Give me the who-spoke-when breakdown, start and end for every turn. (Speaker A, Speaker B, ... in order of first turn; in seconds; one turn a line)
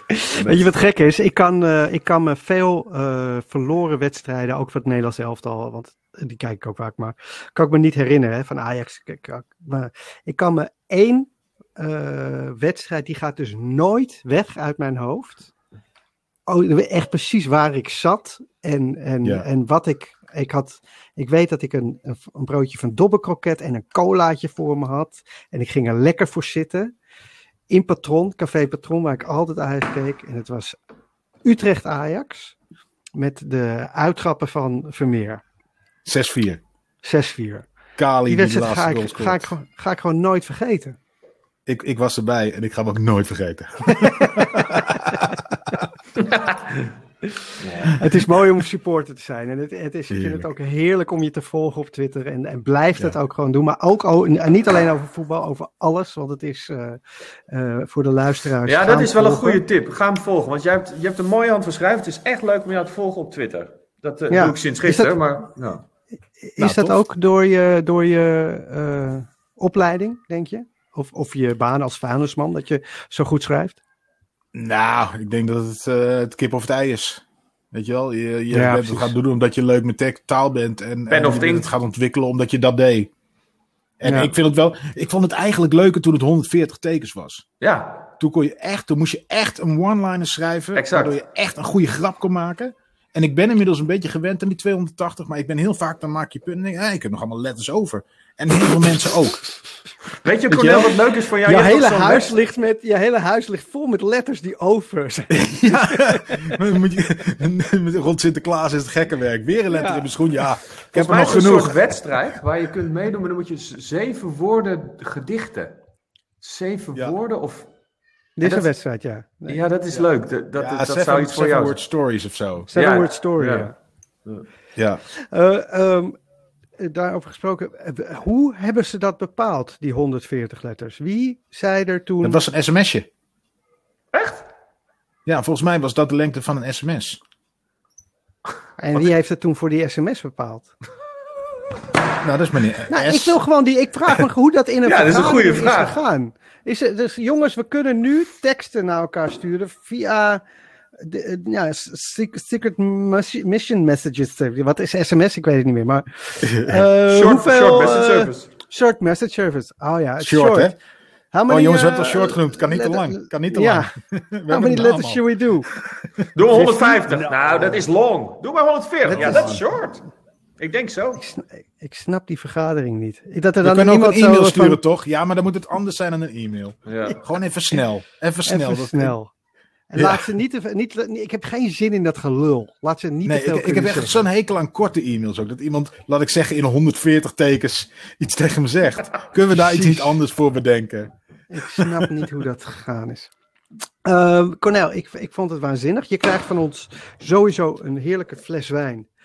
Speaker A: 0.1-15.5
Speaker B: 0.3-0.7
Speaker A: 16.5-26.9
Speaker A: 27.7-30.8
Speaker A: 31.4-32.6
Speaker A: 33.1-35.4
Speaker C: 36.0-36.6
Speaker A: 37.0-37.7
Speaker C: 38.0-39.5
Speaker A: 38.3-41.0
Speaker C: 41.7-45.6
Speaker A: 44.0-45.2
Speaker B: 47.6-48.0
Speaker A: 47.8-59.6
Speaker C: 50.1-50.5
Speaker B: 58.6-65.9
Speaker A: 64.3-65.2
Speaker A: 66.4-73.8
Speaker C: 66.6-67.0
Speaker C: 74.5-83.1
Speaker A: 78.5-79.1
Speaker B: 81.1-81.7
Speaker C: 84.0-87.5
Speaker A: 84.0-84.3
Speaker B: 87.6-88.1
Speaker C: 88.2-99.5
Speaker B: 90.8-91.2
Speaker B: 100.2-102.4
Speaker C: 100.5-101.0
Speaker A: 101.4-106.6
Speaker C: 105.3-111.8
Speaker A: 109.7-110.1
Speaker B: 110.9-115.8
Speaker B: 116.4-117.7
Speaker A: 118.4-119.6
Speaker B: 118.4-118.7
Speaker B: 119.5-121.8
Speaker C: 119.9-122.7
Speaker A: 122.7-123.8
Speaker B: 122.7-123.7
Speaker C: 124.8-125.0
Speaker A: 125.1-126.2
Speaker A: 126.8-132.4
Speaker C: 132.2-133.1
Speaker B: 134.1-134.4
Speaker C: 135.3-137.2
Speaker A: 138.8-140.7
Speaker C: 142.2-143.4
Speaker A: 142.9-150.4
Speaker B: 144.8-146.0
Speaker A: 151.0-160.8
Speaker C: 156.4-156.9
Speaker B: 157.0-158.5
Speaker C: 160.2-160.7
Speaker A: 161.3-163.9
Speaker C: 161.5-165.2
Speaker A: 164.5-165.7
Speaker B: 166.3-170.1
Speaker A: 166.5-167.8
Speaker A: 169.0-169.6
Speaker C: 169.2-169.6
Speaker B: 170.6-171.2
Speaker A: 171.2-174.8
Speaker C: 173.6-179.1
Speaker B: 176.9-177.2
Speaker A: 178.5-179.3
Speaker A: 179.9-184.3
Speaker C: 180.0-180.3
Speaker C: 183.3-192.1
Speaker A: 189.5-190.2
Speaker A: 191.5-193.3
Speaker A: 194.1-199.1